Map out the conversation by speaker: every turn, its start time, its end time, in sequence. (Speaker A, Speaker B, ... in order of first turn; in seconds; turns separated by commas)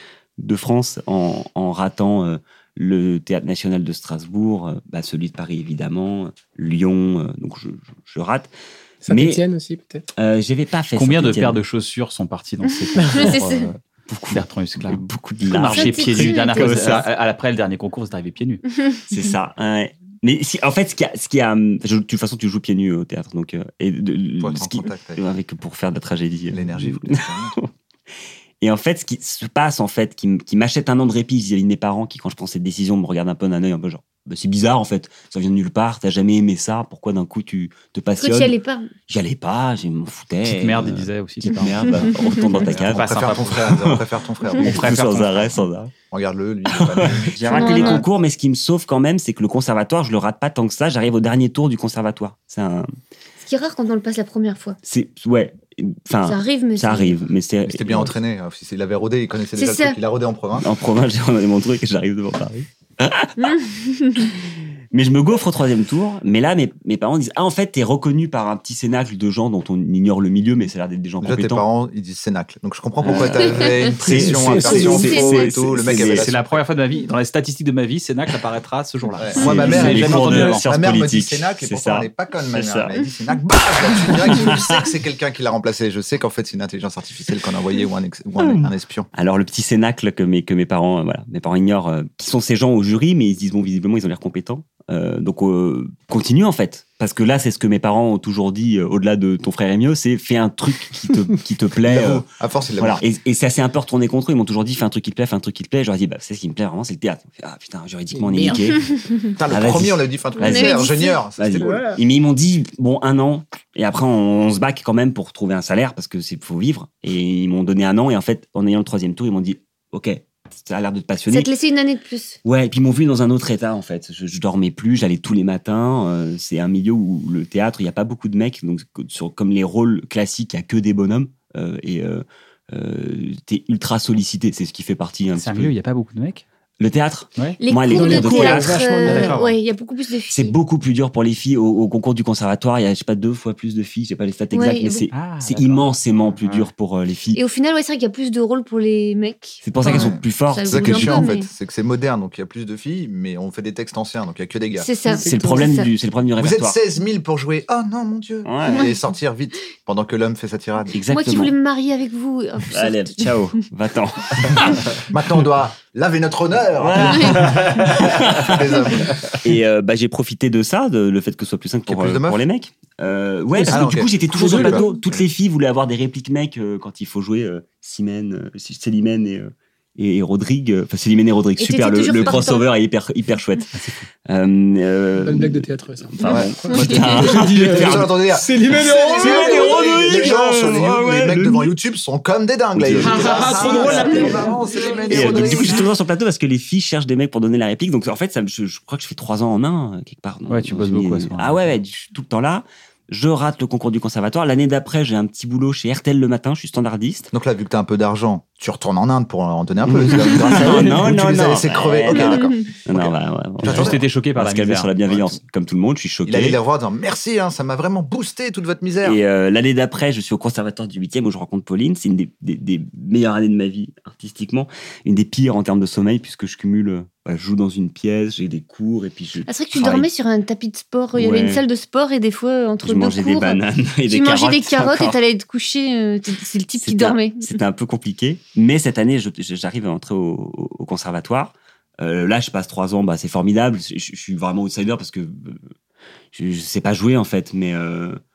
Speaker A: 0.4-8.5, Speaker B: 9.0-10.0, Speaker A: 9.1-9.4, Speaker A: 10.2-11.6, Speaker C: 10.9-13.8, Speaker D: 13.1-13.7, Speaker A: 14.1-17.1, Speaker C: 14.3-18.6, Speaker D: 15.7-16.7, Speaker A: 19.1-27.7, Speaker E: 24.4-25.2, Speaker E: 26.5-27.6, Speaker A: 28.6-38.5, Speaker D: 38.2-38.9, Speaker A: 39.1-44.0, Speaker C: 40.4-42.1, Speaker E: 42.6-44.9, Speaker C: 42.9-43.7, Speaker A: 44.6-45.9, Speaker C: 44.6-45.3, Speaker E: 46.1-48.0, Speaker A: 46.7-52.9, Speaker D: 47.5-48.0, Speaker D: 53.4-54.8, Speaker A: 54.8-58.1, Speaker D: 56.2-57.1, Speaker E: 57.6-60.7, Speaker D: 59.5-60.0, Speaker A: 60.6-63.5, Speaker D: 63.4-64.3, Speaker A: 64.9-71.6, Speaker E: 71.2-76.6, Speaker A: 73.0-76.3, Speaker B: 74.2-75.2, Speaker D: 74.5-75.5, Speaker C: 76.1-80.7, Speaker E: 79.2-89.1, Speaker A: 79.3-82.9, Speaker A: 84.0-84.8, Speaker A: 88.4-102.2, Speaker E: 101.8-103.0, Speaker A: 102.8-108.8, Speaker B: 108.1-108.6, Speaker E: 109.3-111.8, Speaker A: 109.5-110.8, Speaker D: 110.4-111.2, Speaker A: 111.4-121.5, Speaker B: 111.6-112.0, Speaker D: 121.3-122.4, Speaker A: 122.4-135.7, Speaker C: 135.3-136.4, Speaker A: 136.8-139.3, Speaker D: 137.6-140.5, Speaker B: 137.9-139.4, Speaker C: 139.1-139.6, Speaker A: 140.3-147.4, Speaker D: 144.5-145.1, Speaker C: 145.1-146.7, Speaker D: 147.3-151.5, Speaker A: 149.6-151.3, Speaker E: 149.8-154.9, Speaker D: 154.8-155.9, Speaker A: 155.2-156.8, Speaker B: 155.2-155.7, Speaker E: 156.4-160.9, Speaker A: 158.4-158.9, Speaker A: 160.9-161.5, Speaker D: 161.1-163.3, Speaker A: 162.7-164.9, Speaker E: 164.5-169.3, Speaker A: 166.8-183.7, Speaker E: 171.9-172.4, Speaker B: 173.5-173.8, Speaker E: 173.7-174.8, Speaker B: 174.3-174.8, Speaker D: 174.6-175.0, Speaker D: 181.6-182.7, Speaker C: 183.8-184.0, Speaker A: 184.2-191.7, Speaker B: 185.2-189.9, Speaker E: 186.2-195.9, Speaker A: 192.7-194.5, Speaker B: 193.0-195.6, Speaker A: 195.1-207.3, Speaker C: 200.5-201.6, Speaker E: 207.3-214.0, Speaker A: 209.8-216.6, Speaker D: 212.1-212.7, Speaker C: 213.6-215.4, Speaker E: 216.2-219.2, Speaker A: 219.0-230.1, Speaker D: 229.5-237.5, Speaker A: 231.2-231.6, Speaker A: 232.8-235.2, Speaker A: 236.8-245.6, Speaker A: 246.3-248.2